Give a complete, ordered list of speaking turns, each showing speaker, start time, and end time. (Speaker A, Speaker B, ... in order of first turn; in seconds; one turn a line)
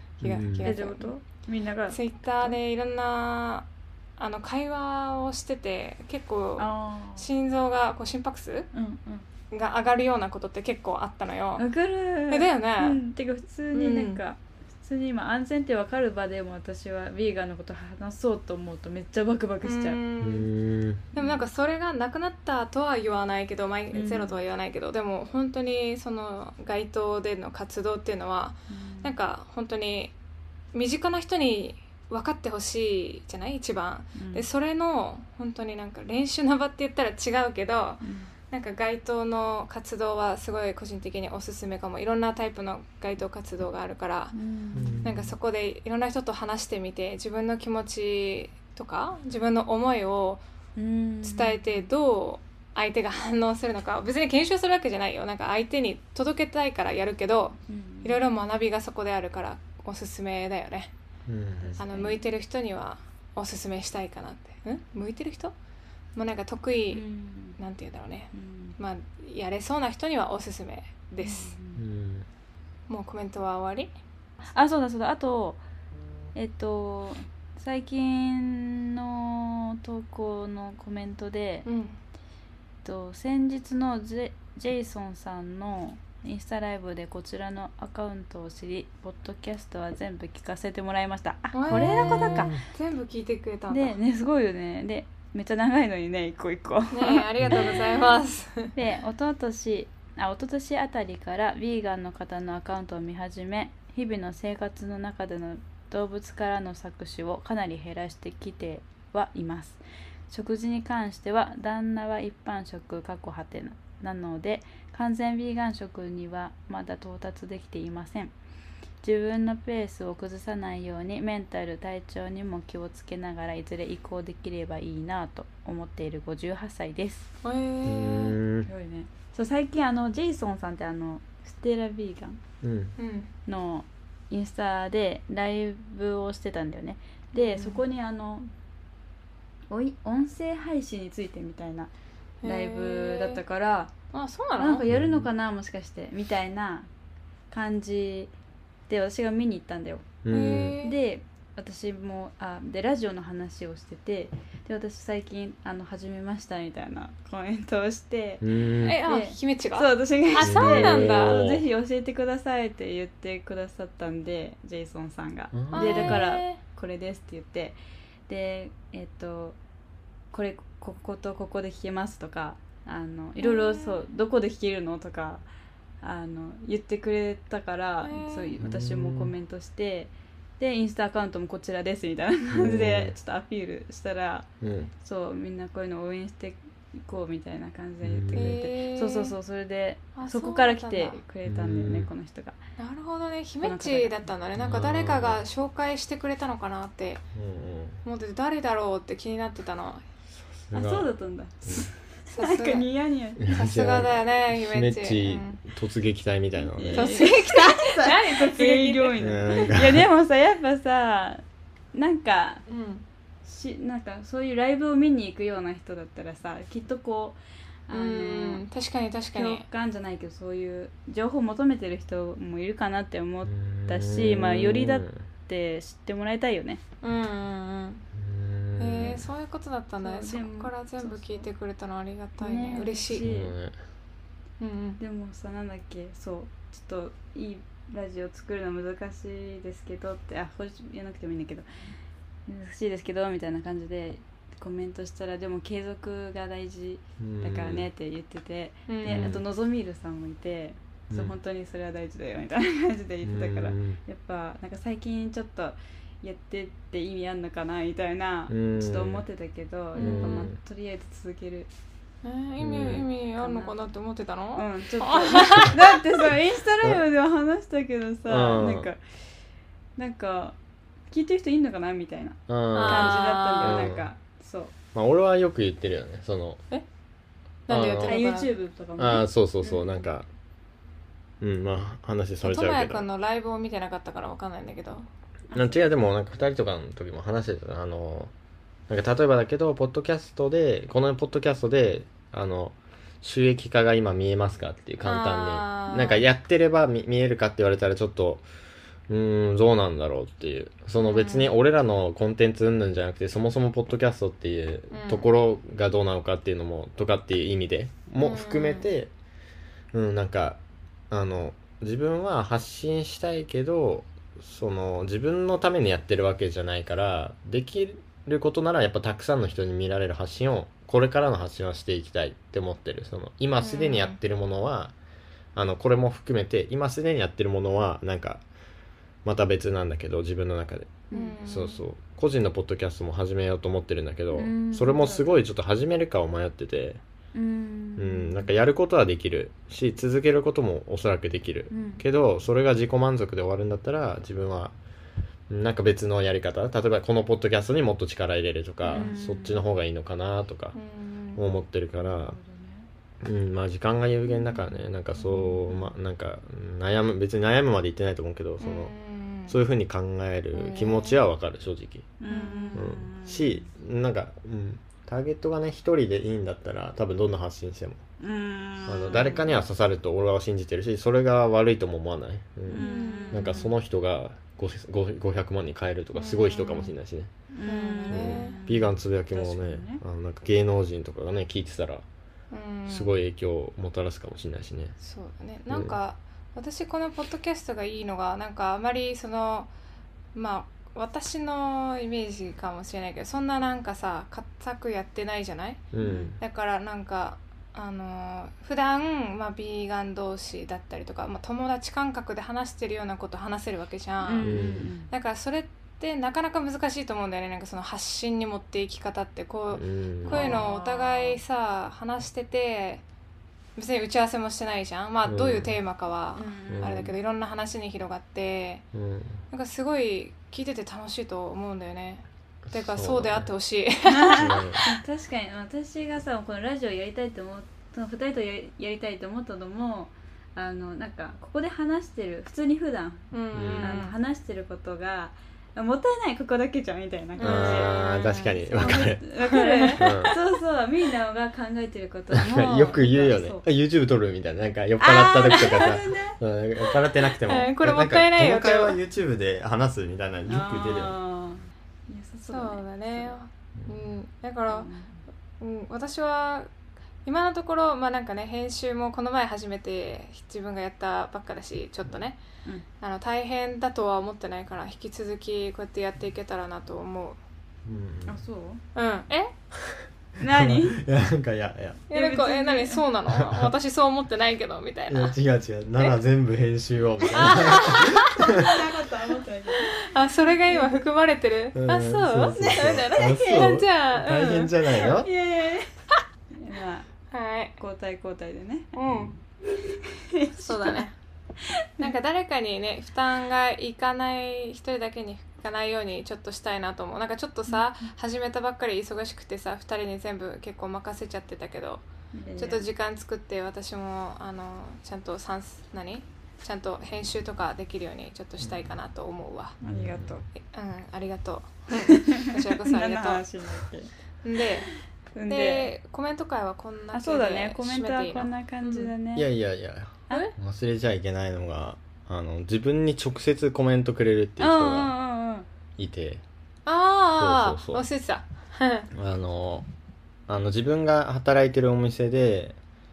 Speaker A: 0.2-1.1
Speaker B: 0.2-0.7
Speaker C: 0.6-2.6
Speaker A: 1.9-8.7
Speaker C: 6.6-7.3
Speaker C: 8.7-9.3
Speaker A: 9.5-11.7
Speaker C: 11.6-20.0
Speaker A: 12.3-13.0
Speaker A: 13.7-14.2
Speaker A: 19.6-20.5
Speaker B: 20.2-21.1
Speaker A: 21.1-30.1
Speaker C: 21.2-21.4
Speaker C: 23.9-24.4
Speaker C: 28.7-29.1
Speaker A: 30.7-44.4
Speaker C: 34.2-34.5
Speaker C: 38.0-38.3
Speaker C: 44.3-45.0
Speaker B: 44.7-45.4
Speaker A: 45.0-50.4
Speaker C: 50.8-51.8
Speaker A: 51.2-60.9
Speaker C: 57.7-58.2
Speaker B: 61.3-61.8
Speaker C: 61.6-62.2
Speaker A: 61.8-65.5
Speaker A: 66.2-67.0
Speaker C: 66.9-67.6
Speaker A: 67.6-71.5
Speaker C: 68.3-68.8
Speaker C: 71.2-71.8
Speaker B: 71.8-72.3
Speaker A: 72.9-73.9
Speaker C: 74.4-75.6
Speaker C: 76.3-81.7
Speaker A: 81.7-82.0
Speaker C: 82.8-92.6
Speaker A: 91.5-94.0
Speaker B: 92.3-92.6
Speaker C: 93.7-97.7
Speaker A: 96.9-98.7
Speaker C: 98.7-118.3
Speaker C: 119.0-127.3
Speaker A: 127.4-128.4
Speaker B: 127.8-128.7
Speaker C: 128.7-132.4
Speaker B: 132.6-132.9
Speaker A: 133.0-133.3
Speaker C: 133.5-138.5
Speaker A: 137.3-137.8
Speaker C: 139.7-141.9
Speaker A: 142.4-143.4
Speaker C: 142.4-143.9
Speaker A: 144.1-144.8
Speaker C: 144.6-146.9
Speaker B: 144.9-145.3
Speaker C: 147.5-148.3
Speaker C: 148.9-150.1
Speaker B: 150.2-150.8
Speaker A: 150.3-151.0
Speaker C: 150.8-167.8
Speaker B: 158.4-159.0
Speaker A: 158.8-161.4
Speaker B: 160.4-161.7
Speaker B: 165.5-166.2
Speaker A: 165.7-166.6
Speaker C: 168.3-169.6
Speaker C: 170.3-175.4
Speaker A: 173.4-174.0
Speaker C: 176.0-184.5
Speaker A: 178.0-178.5
Speaker B: 178.6-179.3
Speaker B: 182.5-183.2
Speaker B: 184.6-184.9
Speaker C: 185.0-192.6
Speaker B: 188.0-188.5
Speaker A: 188.3-189.3
Speaker A: 190.2-191.2
Speaker B: 191.4-192.1
Speaker A: 192.8-197.2
Speaker C: 193.6-194.2
Speaker B: 194.6-195.4
Speaker B: 197.3-198.0
Speaker A: 198.1-200.0
Speaker B: 200.5-201.1
Speaker C: 200.7-203.4
Speaker A: 202.3-202.9
Speaker B: 203.4-207.3
Speaker A: 203.5-205.6
Speaker C: 206.7-212.6
Speaker A: 206.9-209.3
Speaker B: 209.2-210.1
Speaker A: 212.7-213.0
Speaker C: 213.4-218.6
Speaker A: 217.9-219.7
Speaker C: 219.3-226.8
Speaker B: 223.4-225.2
Speaker A: 227.0-228.0
Speaker B: 228.1-229.3
Speaker A: 228.8-233.3
Speaker C: 230.0-231.5
Speaker C: 232.4-233.5
Speaker B: 233.2-233.8
Speaker A: 234.6-235.0
Speaker C: 235.0-241.7
Speaker C: 242.5-261.7
Speaker B: 247.2-247.9
Speaker A: 248.9-249.4
Speaker B: 249.1-249.4
Speaker B: 251.1-251.3
Speaker B: 253.2-254.0
Speaker B: 258.5-259.2
Speaker A: 260.0-260.5
Speaker B: 260.0-260.6
Speaker A: 262.2-265.8
Speaker B: 262.6-263.1
Speaker C: 263.4-263.8
Speaker C: 264.6-269.0
Speaker B: 268.3-268.9
Speaker C: 270.0-270.6
Speaker C: 271.1-274.7
Speaker B: 272.5-274.1
Speaker A: 272.7-273.9
Speaker B: 274.9-276.6
Speaker A: 277.7-278.5
Speaker B: 277.7-278.2
Speaker C: 278.0-279.3
Speaker B: 279.0-280.3
Speaker B: 281.4-283.1
Speaker A: 282.4-285.1
Speaker C: 285.5-285.8
Speaker B: 285.5-288.3
Speaker B: 288.9-298.4
Speaker A: 295.0-296.2
Speaker B: 299.1-309.1
Speaker A: 301.0-301.5
Speaker A: 304.9-305.3
Speaker A: 308.2-308.9
Speaker B: 309.9-325.0
Speaker A: 323.6-324.2
Speaker B: 325.6-328.4
Speaker B: 329.2-337.0
Speaker C: 331.1-331.4
Speaker A: 331.1-331.8
Speaker C: 334.3-335.4
Speaker C: 337.4-338.5
Speaker B: 338.0-344.8
Speaker C: 341.7-342.0
Speaker B: 345.5-350.8
Speaker C: 348.9-349.6
Speaker A: 350.8-351.4
Speaker B: 351.4-352.4
Speaker C: 352.0-352.9
Speaker B: 353.2-358.9
Speaker C: 355.1-355.9
Speaker A: 358.6-359.6
Speaker B: 359.5-362.1
Speaker A: 360.5-361.2
Speaker C: 362.2-363.7
Speaker A: 362.3-362.9
Speaker B: 362.8-368.0
Speaker C: 368.2-369.5
Speaker B: 368.9-377.3
Speaker C: 372.7-373.7
Speaker A: 372.7-373.6
Speaker A: 376.1-376.9
Speaker C: 377.5-380.0
Speaker A: 377.7-378.6
Speaker B: 378.1-382.1
Speaker A: 382.5-383.2
Speaker B: 382.9-385.0
Speaker A: 385.0-389.7
Speaker A: 390.4-413.0
Speaker B: 395.9-396.4
Speaker C: 396.0-396.4
Speaker C: 404.2-405.1
Speaker B: 404.4-404.9
Speaker B: 409.7-410.6
Speaker C: 410.2-411.4
Speaker A: 413.8-418.9
Speaker B: 415.3-415.7
Speaker C: 416.4-417.1
Speaker B: 416.7-417.1
Speaker B: 418.9-419.4
Speaker A: 419.5-425.0
Speaker B: 422.7-423.5
Speaker C: 424.1-438.0
Speaker B: 424.4-424.8
Speaker A: 433.3-434.1
Speaker B: 433.5-434.0
Speaker A: 437.4-440.2
Speaker B: 437.4-439.2
Speaker C: 438.7-443.6
Speaker B: 440.0-440.4
Speaker B: 442.3-451.1
Speaker C: 445.0-446.4
Speaker A: 445.5-445.9
Speaker A: 447.3-449.0
Speaker C: 450.5-453.4
Speaker A: 452.5-454.9
Speaker C: 454.7-455.2
Speaker A: 455.6-456.7
Speaker A: 457.2-462.4
Speaker A: 463.0-467.4
Speaker B: 467.9-468.4
Speaker C: 468.3-468.8
Speaker A: 468.9-469.5
Speaker B: 469.8-472.1
Speaker C: 470.4-471.0
Speaker A: 472.1-475.4
Speaker C: 472.1-473.0
Speaker B: 473.3-473.7
Speaker B: 475.1-478.7
Speaker A: 477.3-478.5
Speaker C: 478.4-479.9
Speaker A: 479.8-485.1
Speaker C: 480.5-481.0
Speaker B: 481.8-485.3
Speaker C: 482.5-483.7
Speaker C: 485.0-485.9
Speaker C: 486.5-487.1
Speaker A: 487.3-487.8
Speaker C: 487.8-489.0
Speaker A: 488.9-489.3
Speaker C: 489.7-491.1
Speaker A: 490.6-491.1
Speaker C: 491.6-492.1
Speaker A: 492.0-502.0
Speaker C: 502.3-502.8
Speaker A: 502.6-509.8
Speaker B: 508.6-508.9
Speaker C: 509.8-510.4
Speaker B: 509.8-510.4
Speaker A: 510.6-513.5
Speaker C: 512.0-514.1
Speaker A: 514.4-514.9
Speaker C: 515.4-515.9
Speaker A: 515.5-519.1
Speaker C: 517.1-519.5
Speaker B: 519.4-525.1
Speaker C: 524.6-525.7
Speaker B: 526.0-526.4
Speaker A: 526.9-529.1
Speaker B: 527.3-528.0
Speaker B: 529.1-529.9
Speaker B: 530.5-532.8